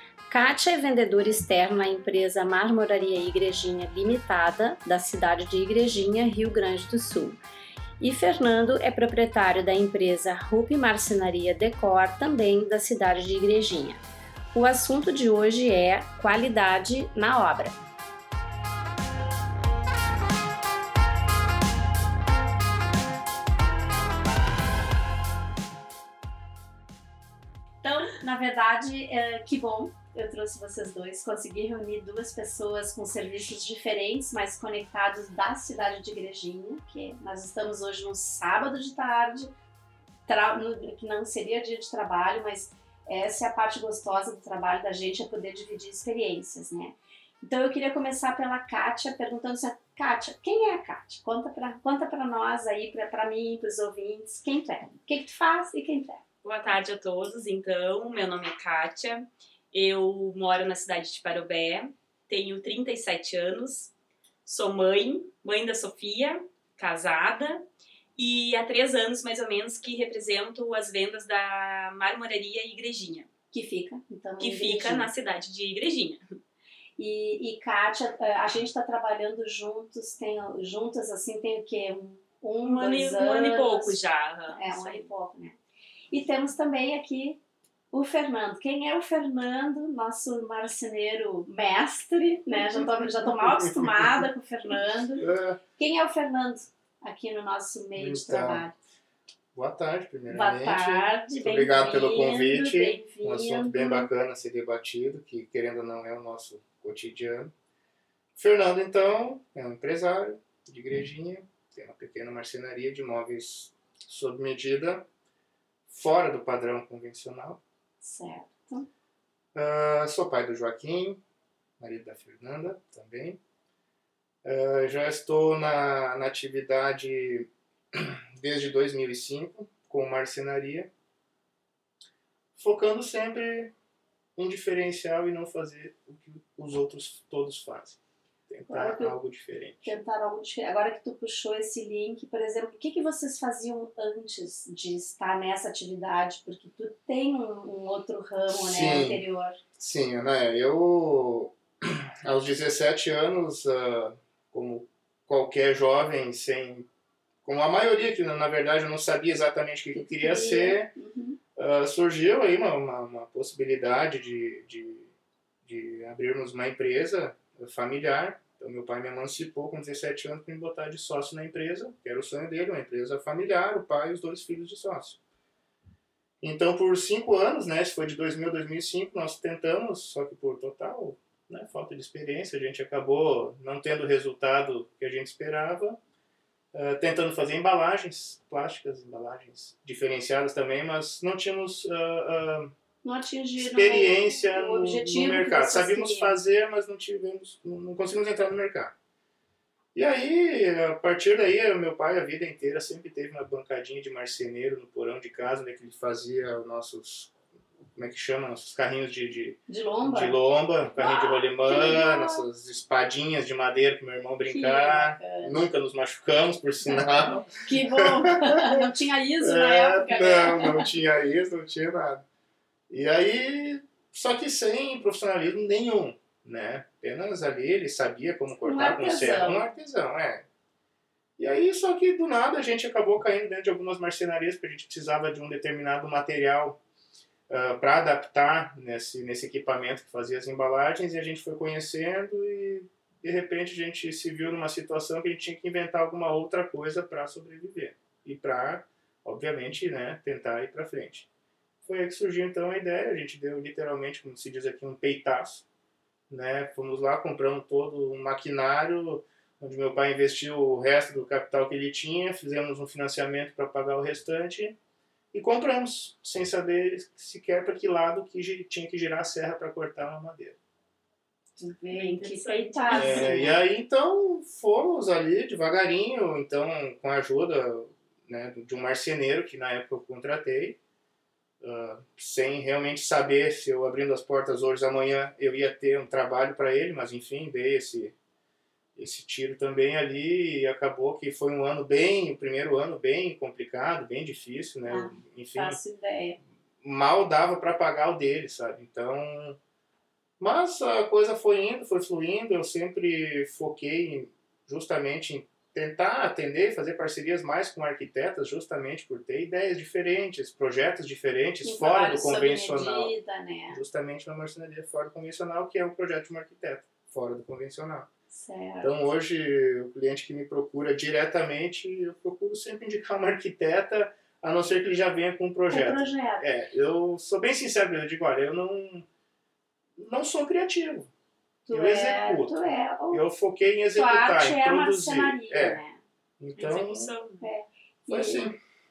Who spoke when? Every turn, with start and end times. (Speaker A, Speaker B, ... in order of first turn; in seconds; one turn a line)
Speaker A: 0.3-7.4
Speaker A: 8.0-14.0
Speaker A: 14.5-17.8
Speaker A: 27.8-39.5
Speaker A: 40.3-56.2
Speaker B: 56.4-63.9
Speaker B: 64.5-67.7
Speaker B: 68.2-73.3
Speaker A: 73.5-75.1
Speaker B: 74.4-76.2
Speaker A: 77.0-85.6
Speaker B: 82.6-85.1
Speaker A: 86.1-87.4
Speaker A: 87.9-95.3
Speaker C: 93.2-94.2
Speaker C: 95.2-95.6
Speaker A: 95.8-98.7
Speaker C: 98.0-98.7
Speaker C: 99.5-107.5
Speaker A: 100.3-104.1
Speaker C: 108.4-115.1
Speaker C: 115.9-117.6
Speaker A: 118.0-118.9
Speaker C: 119.5-121.2
Speaker C: 121.8-123.4
Speaker C: 124.4-130.9
Speaker C: 132.6-133.7
Speaker C: 134.4-140.0
Speaker A: 138.7-139.1
Speaker A: 139.8-149.6
Speaker C: 148.5-149.2
Speaker C: 149.8-156.9
Speaker C: 157.4-160.9
Speaker A: 159.9-161.4
Speaker C: 161.6-165.1
Speaker C: 165.7-175.2
Speaker C: 176.4-186.0
Speaker C: 186.7-192.7
Speaker A: 193.0-196.4
Speaker C: 193.6-198.9
Speaker C: 199.9-207.4
Speaker C: 207.9-218.7
Speaker A: 209.7-210.4
Speaker A: 210.9-212.4
Speaker A: 214.5-215.6
Speaker A: 216.8-220.9
Speaker C: 219.4-222.2
Speaker C: 222.9-230.4
Speaker A: 228.6-229.7
Speaker C: 231.4-236.8
Speaker C: 237.5-251.3
Speaker C: 251.8-255.7
Speaker C: 256.3-264.8
Speaker C: 265.3-270.6
Speaker A: 271.6-273.6
Speaker B: 271.9-273.5
Speaker C: 272.9-280.8
Speaker C: 281.6-288.1
Speaker C: 289.0-295.8
Speaker A: 294.9-296.4
Speaker C: 296.8-299.6
Speaker C: 300.4-313.1
Speaker A: 311.6-313.8
Speaker C: 313.7-318.1
Speaker A: 318.3-319.0
Speaker C: 318.8-329.1
Speaker A: 325.7-326.4
Speaker C: 330.0-331.1
Speaker A: 331.7-333.2
Speaker C: 331.7-335.8
Speaker A: 333.9-336.0
Speaker C: 336.4-337.1
Speaker B: 336.6-337.5
Speaker A: 337.4-338.5
Speaker C: 338.1-338.6